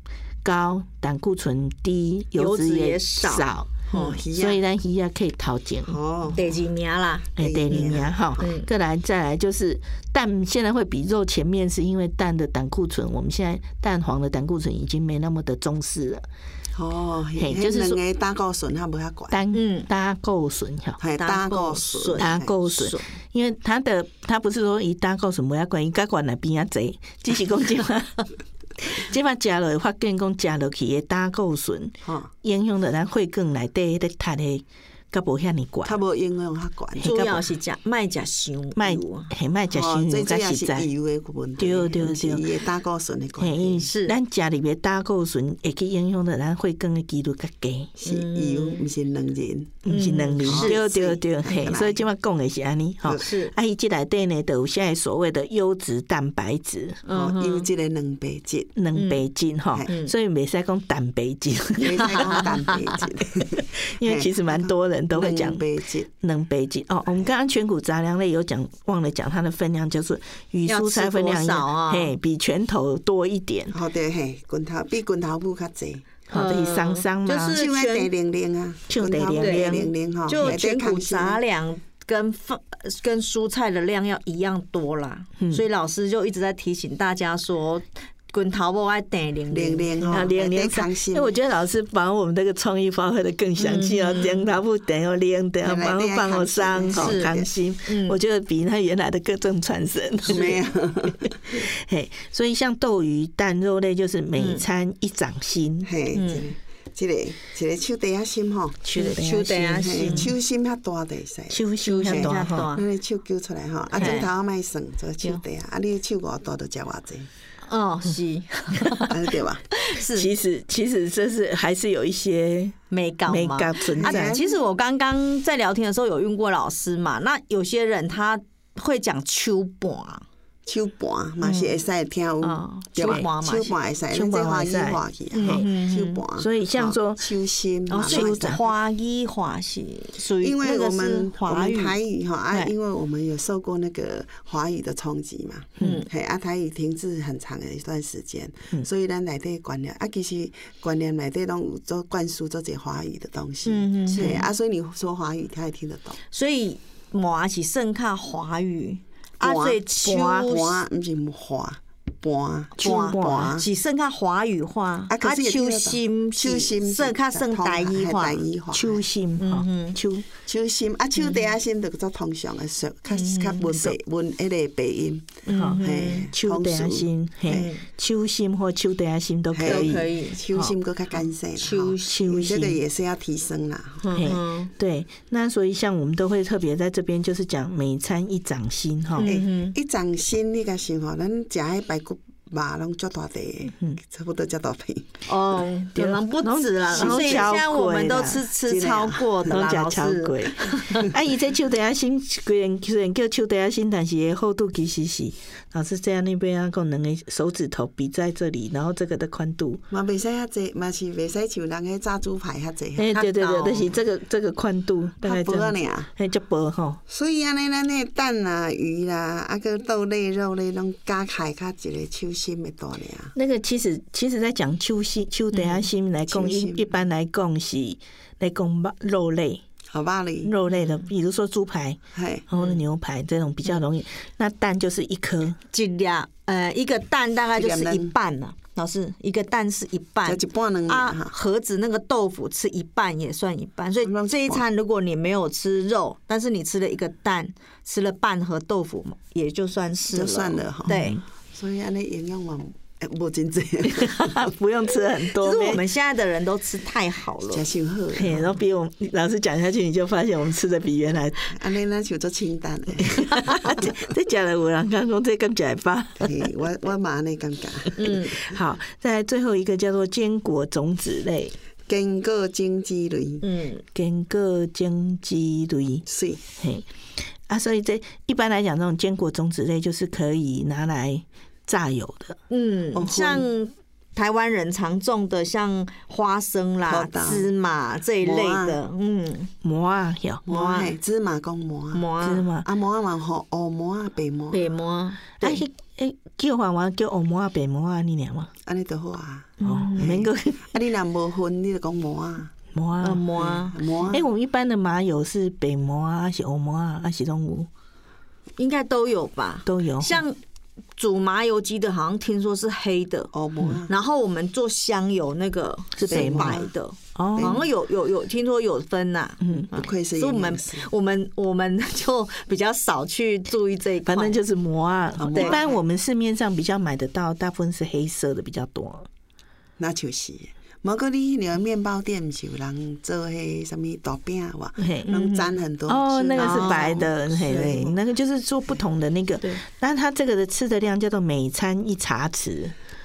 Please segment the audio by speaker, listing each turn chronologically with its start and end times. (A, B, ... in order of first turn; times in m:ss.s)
0:00.4-0:03.7 A
0:02.4-0:04.2 B
0:03.9-0:04.6 C
0:04.3-0:06.0 A
0:05.9-0:06.4 C
0:06.4-0:08.7 B
0:07.4-0:08.4 C
0:07.4-0:16.2 A
0:16.7-0:19.4 C
0:17.4-0:18.0 A
0:19.3-0:21.0 A
0:19.5-0:19.9 B
0:21.0-0:22.5 C
0:21.2-0:23.1 B
0:22.2-0:28.3 A
0:28.8-0:36.0 A
0:32.0-0:32.3 C
0:35.8-0:37.3 C
0:37.0-0:37.4 A
0:37.0-0:39.3 B
0:38.8-0:40.9 A
0:39.7-0:43.9 C
0:41.6-0:42.5 A
0:43.4-0:47.9 A
0:43.8-0:44.2 B
0:48.0-0:49.9 C
0:48.0-0:48.9 B
0:49.8-0:57.0 A
0:49.9-0:50.8 B
0:50.4-0:52.0 C
0:53.1-0:53.5 B
0:57.0-0:57.7 B
0:57.1-0:58.7 C
0:58.8-1:02.5 A
0:58.9-0:59.2 B
0:59.9-1:00.1 B
1:01.8-1:06.1 C
1:02.0-1:02.8 B
1:03.6-1:05.6 A
1:06.2-1:13.8 A
1:10.7-1:12.1 B
1:13.7-1:16.1 C
1:16.3-1:17.6 A
1:16.3-1:18.1 B
1:17.5-1:21.4 C
1:18.9-1:20.5 A
1:19.4-1:30.2 B
1:29.5-1:31.4 C
1:30.1-1:40.6 A
1:33.6-1:34.4 B
1:35.6-1:37.5 C
1:37.0-1:37.3 B
1:37.8-1:38.2 B
1:40.3-1:41.6 C
1:41.5-1:45.9 A
1:44.4-1:44.6 B
1:45.8-1:48.8 C
1:46.1-1:46.5 B
1:48.8-1:50.3 A
1:49.0-1:50.3 B
1:49.8-1:57.3 C
1:51.5-1:52.7 A
1:51.8-1:52.8 B
1:54.0-1:54.3 B
1:57.6-1:59.2 B
1:59.1-1:59.6 C
1:59.7-2:00.3 B
2:00.1-2:04.4 A
2:02.9-2:10.3 B
2:03.9-2:04.6 C
2:10.7-2:18.6 C
2:11.4-2:11.8 B
2:12.4-2:13.8 B
2:13.0-2:13.3 A
2:14.1-2:15.7 A
2:15.3-2:16.2 B
2:16.4-2:17.3 A
2:17.9-2:22.0 B
2:18.0-2:18.6 A
2:20.4-2:36.2 C
2:25.8-2:26.1 B
2:33.7-2:34.5 B
2:36.3-2:40.8 B
2:39.4-2:43.7 C
2:40.0-2:40.5 A
2:42.8-2:48.4 B
2:42.8-2:43.5 A
2:45.1-2:49.0 C
2:48.7-2:50.3 A
2:49.4-2:50.0 B
2:50.4-2:57.7 C
2:53.1-2:53.9 B
2:55.5-2:56.3 B
2:55.5-2:55.8 A
2:56.3-3:00.7 A
2:57.5-2:57.8 B
2:59.5-3:04.3 C
2:59.6-3:00.4 B
3:01.6-3:02.5 B
3:02.1-3:02.8 A
3:04.0-3:04.7 B
3:04.2-3:09.3 A
3:09.2-3:09.8 B
3:09.2-3:15.1 C
3:15.3-3:21.1 B
3:16.0-3:18.4 A
3:16.9-3:17.6 C
3:18.6-3:19.7 C
3:19.5-3:29.8 A
3:29.9-3:33.9 C
3:33.0-3:37.0 A
3:35.2-3:36.1 C
3:37.1-3:43.4 C
3:43.4-3:49.6 A
3:45.5-3:45.8 B
3:46.3-3:46.9 C
3:49.9-3:50.5 C
3:50.4-3:55.6 A
3:50.7-3:51.0 B
3:52.1-3:52.5 C
3:55.7-4:11.2 B
3:57.6-3:58.1 C
4:00.2-4:01.4 C
4:04.0-4:04.6 C
4:10.1-4:11.0 C
4:10.9-4:11.2 A
4:11.5-4:14.5 C
4:13.9-4:15.8 A
4:15.3-4:17.7 B
4:17.5-4:18.5 C
4:18.1-4:21.6 A
4:21.5-4:24.0 C
4:23.0-4:26.4 A
4:26.2-4:28.5 C
4:28.0-4:28.4 B
4:28.4-4:31.5 A
4:31.9-4:33.4 C
4:33.4-4:33.8 B
4:33.9-4:36.0 A
4:36.0-4:36.4 C
4:36.6-4:36.9 A
4:37.5-4:42.4 A
4:42.5-4:49.5 B
4:43.0-4:43.5 C
4:46.9-4:47.5 C
4:48.2-4:48.8 C
4:49.6-4:50.4 A
4:50.5-4:52.1 C
4:50.5-4:50.9 B
4:51.9-4:52.5 B
4:52.2-4:52.7 A
4:52.6-4:54.6 C
4:54.5-4:55.6 B
4:55.4-4:58.5 A
4:58.7-5:02.5 C
4:59.6-5:00.1 B
4:59.6-5:00.8 A
5:02.7-5:03.2 A
5:03.0-5:03.8 B
5:03.4-5:04.3 C
5:04.1-5:07.7 A
5:08.6-5:10.4 B
5:09.7-5:10.2 A
5:11.0-5:13.3 B
5:13.3-5:13.9 C
5:13.9-5:24.4 B
5:16.0-5:17.6 A
5:16.1-5:16.7 C
5:17.4-5:17.6 C
5:19.4-5:19.7 A
5:19.7-5:20.9 C
5:24.1-5:29.1 A
5:25.2-5:25.8 C
5:25.3-5:25.7 B
5:29.8-5:38.0 C
5:34.8-5:35.1 A
5:35.1-5:35.5 B
5:35.9-5:42.7 A
5:36.4-5:37.0 B